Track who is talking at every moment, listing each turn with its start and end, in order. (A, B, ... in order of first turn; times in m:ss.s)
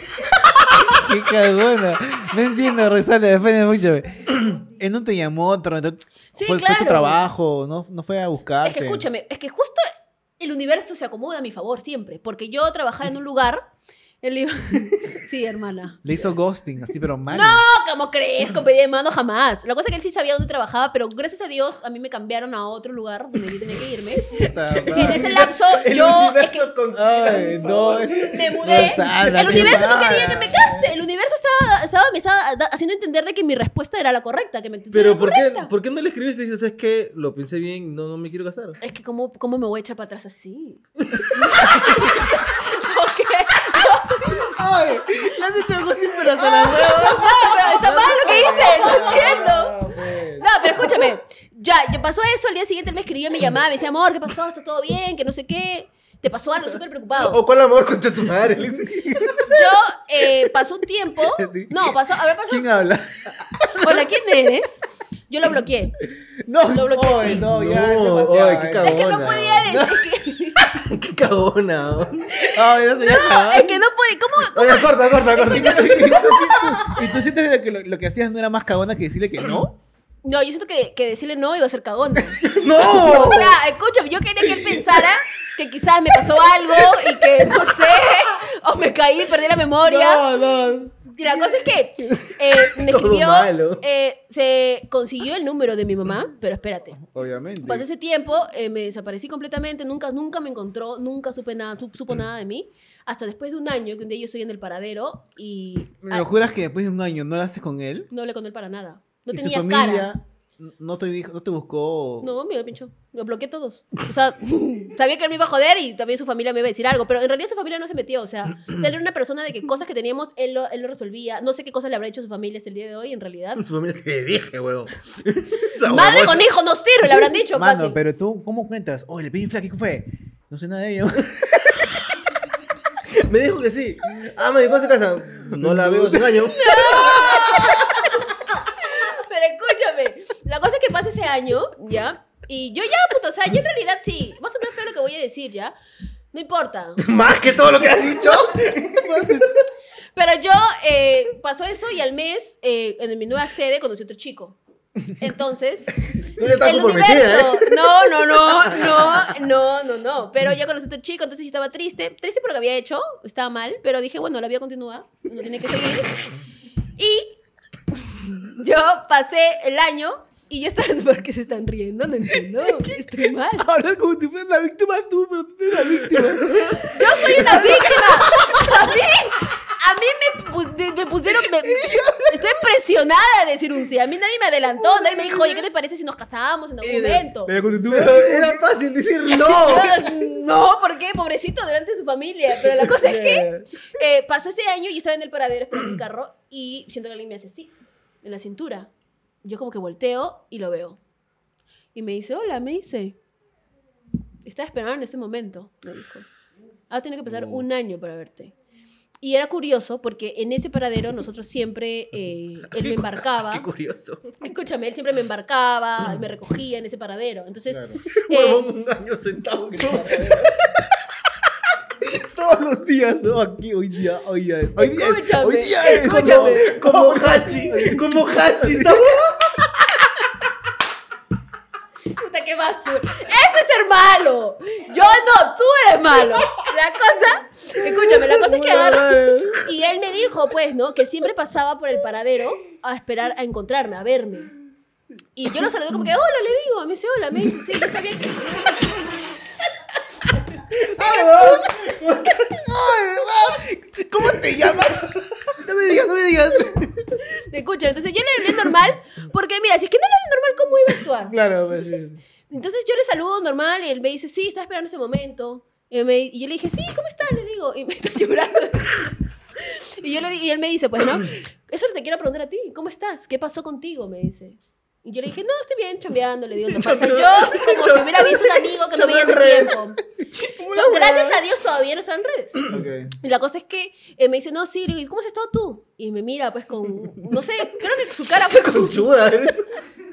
0:00.9-0:09.0 A
0:06.3-0:07.2 B
0:08.6-0:13.6 B
0:14.2-0:16.0 B
0:16.0-0:17.6 A
0:17.3-0:24.4 B
0:24.3-0:25.4 A
0:24.7-0:30.2 C
0:24.9-0:26.7 B
0:26.9-0:30.9 A
0:28.2-0:35.7 B
0:34.9-0:38.8 C
0:38.8-0:44.7 B
0:44.4-0:50.7 A
0:46.3-0:49.8 B
0:50.3-0:57.4 B
0:57.2-0:59.1 C
0:58.6-0:59.6 A
0:59.4-1:02.7 B
1:01.2-1:04.1 A
1:03.7-1:06.0 B
1:06.4-1:09.0 A
1:06.7-1:07.5 B
1:07.3-1:09.7 C
1:08.8-1:10.8 B
1:09.7-1:10.2 A
1:10.6-1:12.3 C
1:12.4-1:16.9 B
1:12.5-1:13.8 A
1:14.5-1:17.0 C
1:15.5-1:19.8 A
1:20.2-1:30.2 B
1:22.4-1:23.6 C
1:29.8-1:31.5 A
1:31.2-1:37.0 B
1:32.1-1:33.8 C
1:37.0-1:37.8 A
1:37.6-1:46.3 B
1:46.0-1:48.1 A
1:48.1-1:50.1 B
1:49.3-1:52.3 A
1:52.2-2:03.6 B
2:03.6-2:06.4 C
2:05.8-2:08.0 B
2:07.5-2:12.0 A
2:13.1-2:17.8 C
2:15.5-2:16.7 A
2:16.5-2:25.7 B
2:26.3-2:27.0 B
2:27.0-2:29.6 C
2:28.8-2:29.6 A
2:30.1-2:46.2 B
2:36.1-2:38.2 C
2:38.8-2:39.2 C
2:47.0-2:47.4 B
2:47.9-2:53.7 B
2:53.1-2:58.7 A
2:56.8-3:07.5 B
3:01.6-3:02.4 A
3:06.8-3:07.3 C
3:07.4-3:08.7 A
3:07.8-3:10.2 C
3:09.3-3:18.9 B
3:12.9-3:13.7 A
3:19.4-3:21.0 B
3:21.9-3:23.2 B
3:24.4-3:26.3 B
3:26.9-3:28.5 B
3:29.2-3:33.6 B
3:32.7-3:34.3 C
3:34.4-3:38.7 B
3:37.6-3:38.0 A
3:38.0-3:40.6 C
3:40.2-3:40.8 A
3:41.9-3:49.3 A
3:44.8-3:47.9 B
3:45.9-3:49.5 C
3:52.0-4:04.5 B
3:58.0-3:59.7 A
4:05.3-4:09.1 B
4:10.8-4:12.6 C
4:11.0-4:11.6 B
4:12.4-4:17.2 A
4:17.3-4:40.0 B
4:21.3-4:22.2 A
4:36.7-4:41.4 C
4:40.7-4:42.6 B
4:42.7-4:43.1 A
4:43.2-4:49.0 B
4:48.4-4:49.8 C